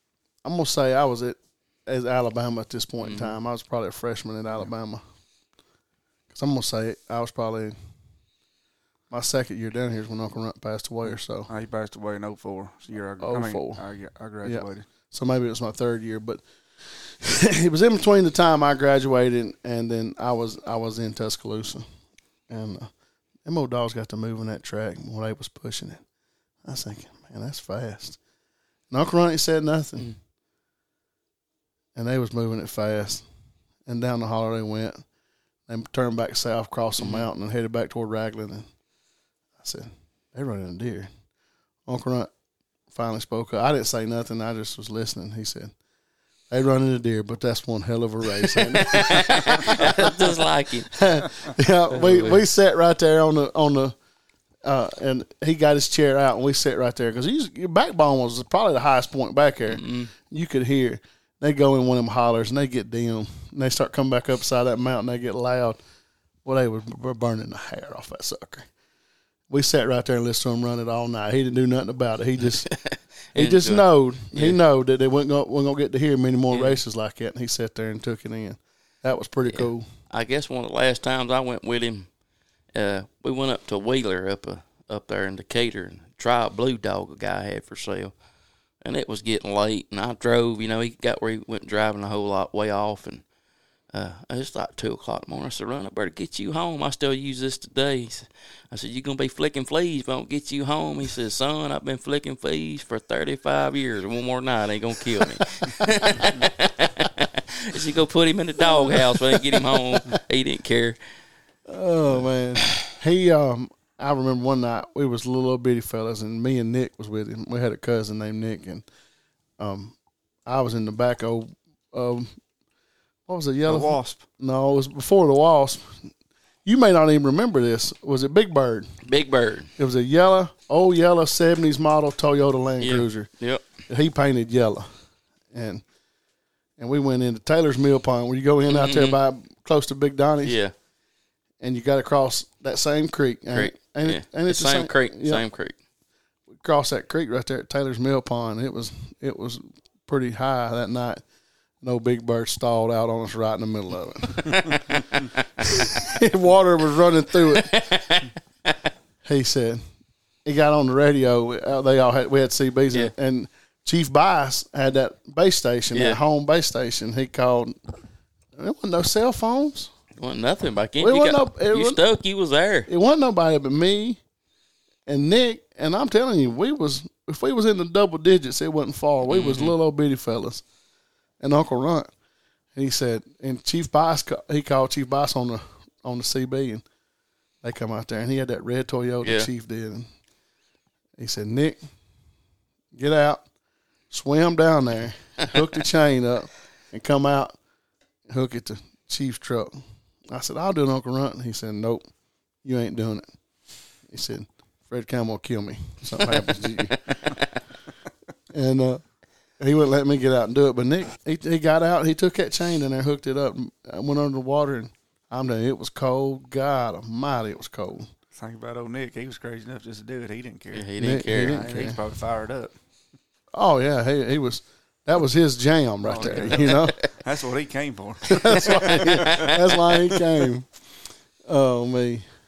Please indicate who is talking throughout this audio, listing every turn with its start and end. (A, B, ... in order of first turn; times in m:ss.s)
0:00.4-0:05.0 A
0:03.0-0:03.3 B
0:06.3-0:07.8 A
0:09.1-0:11.5 A
0:11.5-0:14.9 C
0:13.2-0:13.8 A
0:14.4-0:21.8 A
0:22.5-0:22.9 A
0:23.4-0:26.0 A
0:26.6-0:28.2 A
0:28.9-0:30.1 A
0:31.9-0:33.2 A
0:33.8-0:35.0 A
0:35.7-0:38.7 A
0:37.0-0:37.3 B
0:39.6-0:41.1 A
0:41.9-0:42.3 A
0:42.9-0:45.7 A
0:46.5-0:53.9 A
0:48.7-0:50.9 B
0:51.9-0:52.4 B
0:54.6-1:05.8 A
0:59.7-1:00.1 B
1:06.4-1:08.7 A
1:09.5-1:12.7 A
1:12.6-1:14.6 B
1:13.3-1:19.8 A
1:16.5-1:16.8 B
1:19.5-1:22.1 B
1:22.7-1:28.1 B
1:28.8-1:33.2 B
1:33.9-1:51.0 B
1:48.6-1:50.0 A
1:51.7-1:58.8 A
1:59.6-1:59.9 A
2:00.4-2:02.3 A
2:03.3-2:06.1 A
2:03.7-2:04.2 C
2:06.6-2:08.9 A
2:09.0-2:09.7 B
2:09.8-2:13.3 A
2:12.8-2:13.6 B
2:13.9-2:14.9 A
2:15.5-2:15.8 A
2:16.8-2:20.6 A
2:18.7-2:19.2 B
2:20.4-2:20.7 B
2:21.6-2:25.4 A
2:23.5-2:25.7 B
2:26.6-2:31.2 A
2:31.8-2:35.0 A
2:34.5-2:35.2 B
2:35.6-2:37.8 A
2:37.5-2:38.8 B
2:39.2-2:39.8 A
2:40.4-2:47.8 A
2:45.9-2:46.2 B
2:48.6-2:49.9 A
2:50.2-2:52.9 B
2:51.0-2:52.0 A
2:52.9-2:54.2 A
2:55.1-3:00.6 A
2:59.2-2:59.7 B
3:01.4-3:02.1 A
3:02.7-3:06.8 A
3:07.6-3:10.1 A
3:09.2-3:09.5 B
3:11.2-3:11.8 A
3:12.9-3:13.4 A
3:14.1-3:17.6 A
3:18.3-3:19.7 A
3:20.3-3:22.0 A
3:22.6-3:23.3 A
3:24.1-3:27.0 A
3:26.2-3:27.5 B
3:28.5-3:29.0 A
3:29.6-3:38.1 A
3:38.3-3:40.9 C
3:40.7-3:41.7 B
3:41.0-3:42.0 A
3:41.4-3:42.7 C
3:43.5-3:47.0 A
3:46.0-3:50.3 C
3:46.6-3:46.9 B
3:48.3-3:50.7 A
3:48.4-3:49.6 B
3:51.4-3:52.2 A